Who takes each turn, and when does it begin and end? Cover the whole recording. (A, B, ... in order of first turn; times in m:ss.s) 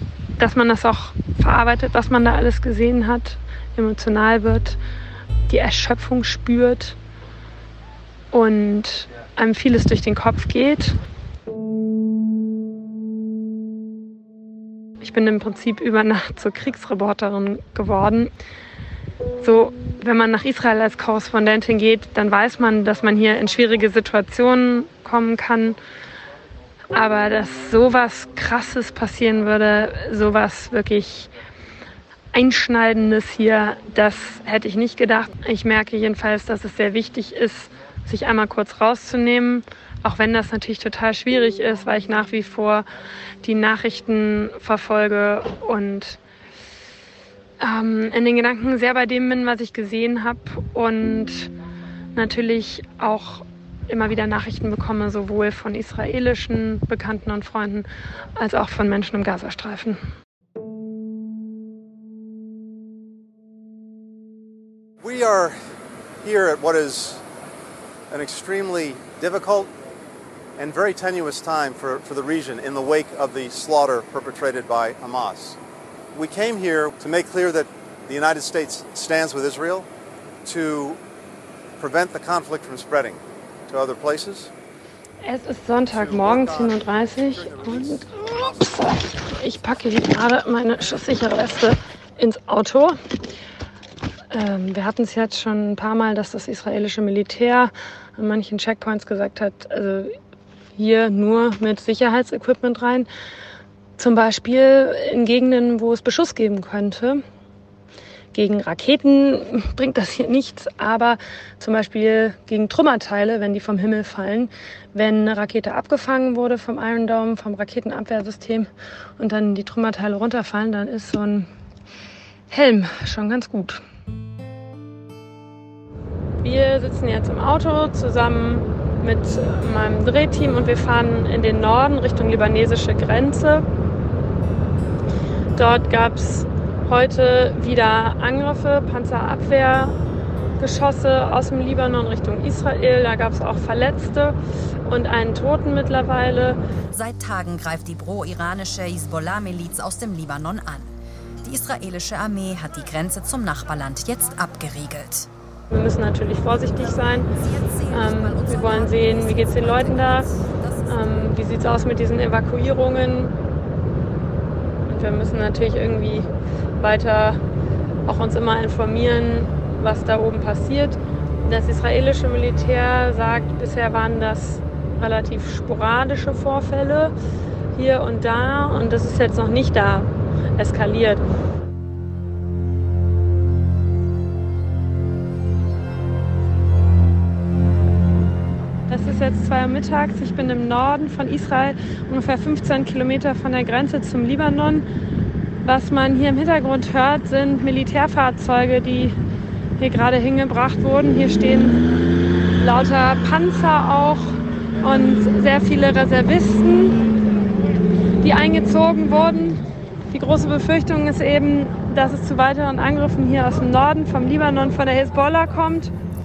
0:00.4-0:04.8 A
0:05.5-0:07.0 A
0:08.3-0:11.0 A
0:15.0-0:18.3 A
0:19.4-0:25.8 A
0:26.9-0:31.3 A
0:32.3-0:42.9 A
0:43.4-0:46.2 A
0:47.6-0:51.5 A
0:52.2-1:00.0 A
1:05.0-1:05.6 B
1:06.2-1:07.2 B
1:08.1-1:09.7 B
1:10.6-1:15.6 B
1:16.1-1:19.9 B
1:20.4-1:21.0 B
1:21.8-1:24.5 B
1:25.2-1:33.0 A
1:25.9-1:28.6 B
1:34.3-1:40.1 A
1:40.8-1:43.1 A
1:44.0-1:47.2 A
1:48.3-2:01.5 A
2:02.5-2:03.8 A
2:06.4-2:13.6 A
2:15.6-2:20.0 A
2:20.6-2:24.4 A
2:24.9-2:26.6 A
2:26.9-2:35.3 C
2:35.7-2:37.3 A
2:37.3-2:41.3 C
2:37.9-2:40.3 A
2:40.9-2:43.3 A
2:44.9-2:47.4 A
2:48.1-2:57.1 A
2:57.8-3:01.2 A
3:08.9-3:14.9 A
3:15.6-3:19.2 A
3:19.8-3:21.8 A
3:22.6-3:27.0 A
3:28.2-3:35.9 A